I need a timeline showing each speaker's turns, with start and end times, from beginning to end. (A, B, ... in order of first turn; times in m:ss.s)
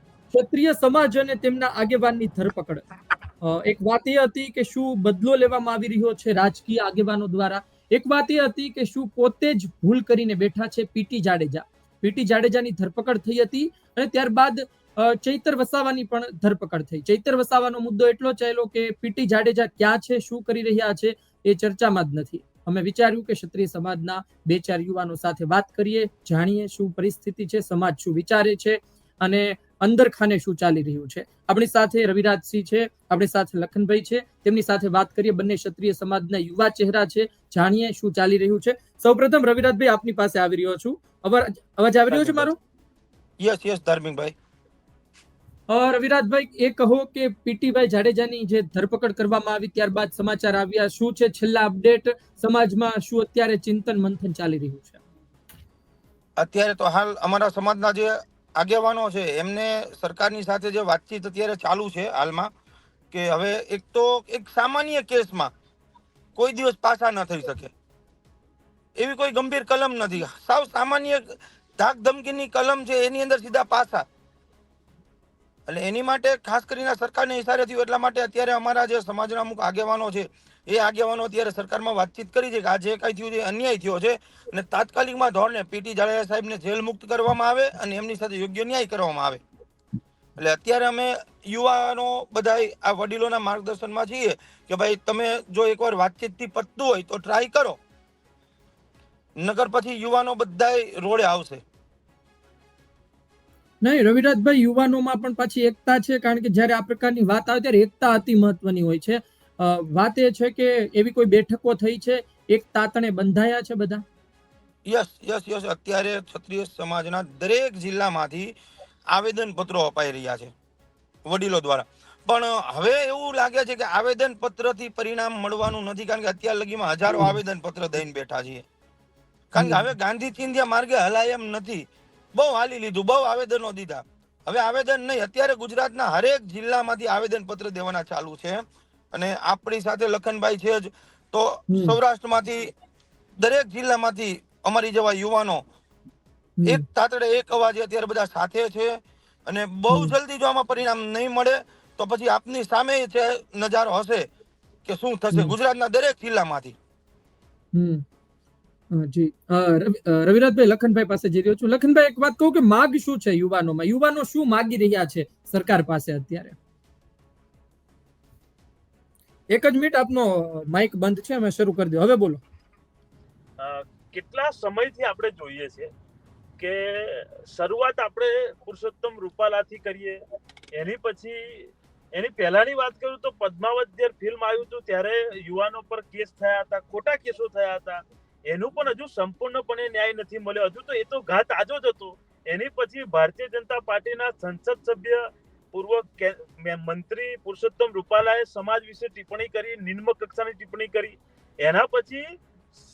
0:00.3-0:02.8 A
0:03.4-0:42.6 A
0:42.1-0:42.5 B
0:43.4-0:44.3 B
0:45.7-0:55.0 A
0:56.4-1:02.5 B
1:03.1-1:05.5 B
1:06.4-1:07.7 B
1:09.0-1:11.2 B
1:11.8-1:14.0 B
1:15.7-1:29.4 B
1:30.4-1:37.8 B
1:39.4-1:41.6 B
1:43.8-1:54.0 A
1:54.8-1:58.6 B
1:59.1-2:00.5 B
2:01.2-2:08.6 B
2:09.5-2:11.8 B
2:09.6-2:09.9 A
2:12.4-2:18.6 B
2:19.1-2:22.7 B
2:21.7-2:22.0 A
2:23.4-2:25.6 B
2:26.6-2:34.3 B
2:29.9-2:30.1 A
2:34.8-2:36.8 B
2:37.7-2:38.0 A
2:38.9-2:46.6 A
2:49.5-2:52.4 A
2:53.6-2:55.9 C
2:56.6-3:00.2 C
3:00.7-3:22.2 C